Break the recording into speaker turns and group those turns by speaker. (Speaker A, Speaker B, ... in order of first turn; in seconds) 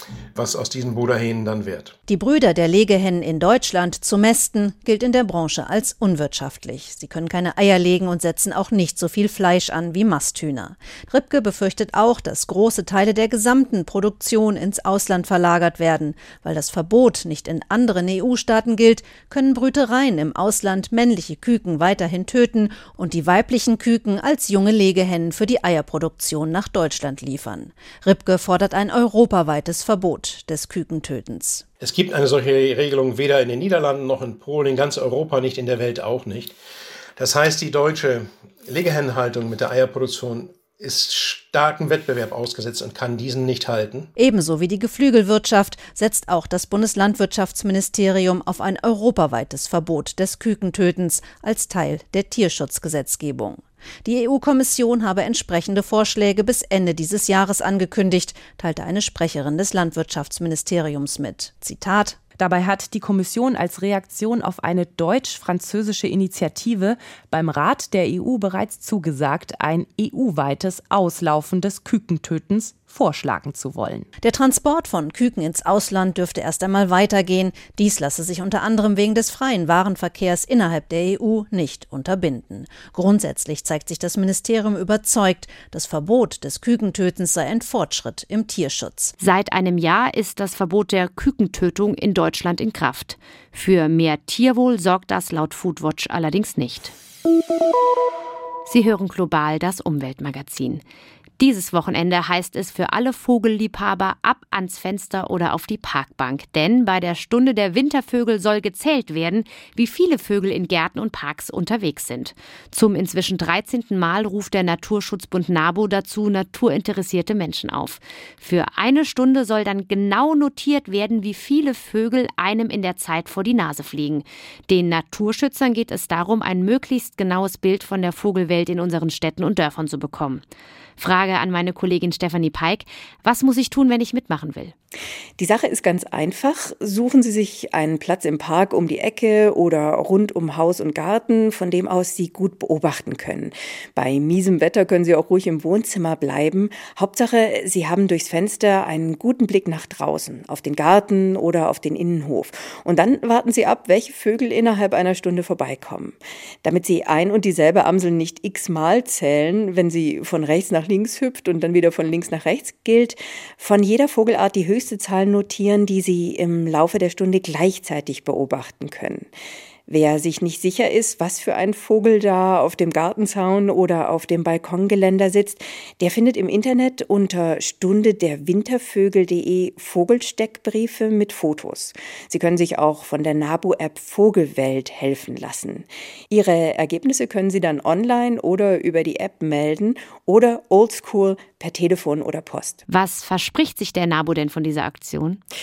Speaker A: 0.3-2.0, 31.8-36.6, 37.2-44.1
Speaker B: 2.1-31.6, 44.2-62.2, 74.2-89.1
Speaker C: 62.4-74.1
Speaker D: 89.2-96.9, 98.7-100.8, 101.4-130.4, 131.0-134.7, 192.9-195.4
Speaker E: 135.4-169.3, 169.9-192.8